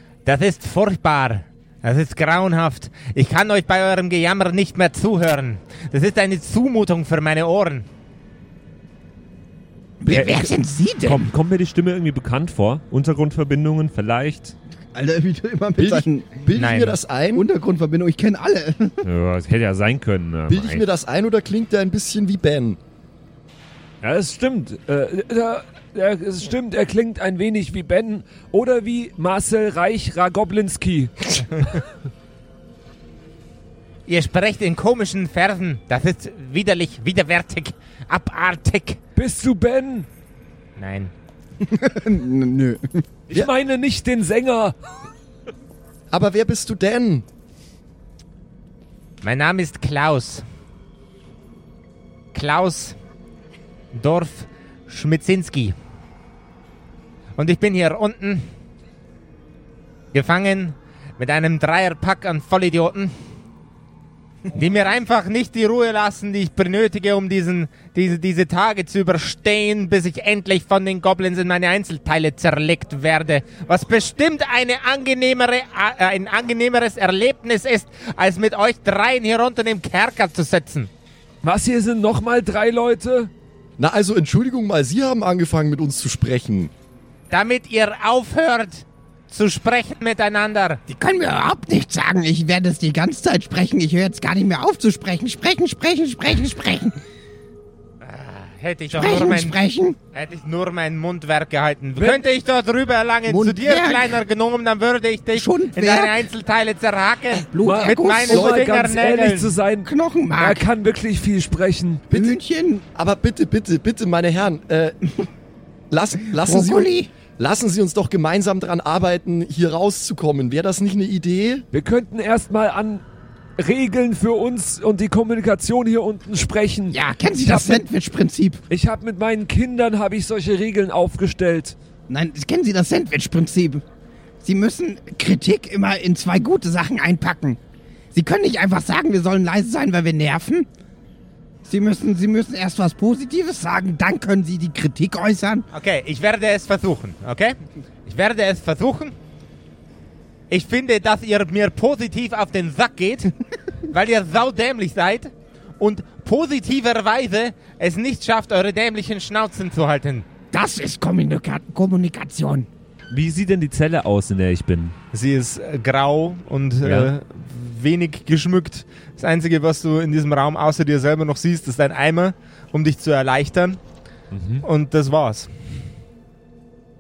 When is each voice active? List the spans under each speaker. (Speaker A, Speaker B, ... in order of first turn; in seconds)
Speaker A: 0.2-7.9, 16.5-17.0, 34.1-39.0, 40.8-41.1, 49.2-50.4, 52.3-53.0, 53.9-55.8, 57.4-58.5, 60.1-63.1, 64.5-80.9, 87.3-90.8, 98.0-99.6, 100.1-109.6, 145.7-149.2, 150.5-153.3, 153.9-160.2, 165.1-173.8, 174.6-175.5
Speaker B: 10.0-11.3, 90.9-97.0, 98.9-100.0, 103.3-104.2, 105.3-106.3, 107.4-108.5, 109.8-110.7, 112.1-112.8, 116.4-117.1, 126.9-128.6, 132.1-133.8, 134.4-137.6, 138.1-140.7, 141.7-145.7, 160.5-162.7
Speaker C: 10.1-10.5, 11.0-14.6, 19.0-20.9, 163.1-165.0, 166.8-167.1, 174.3-174.7
Speaker D: 14.9-16.4, 17.3-19.0, 41.6-43.0
Speaker E: 15.8-17.5, 20.5-22.8, 46.1-47.2, 83.8-86.7, 113.0-115.0, 115.9-121.7
Speaker F: 24.0-31.8, 39.2-40.1, 43.3-44.8, 81.4-83.3, 107.6-112.1, 121.7-123.0, 123.6-127.9, 128.7-131.8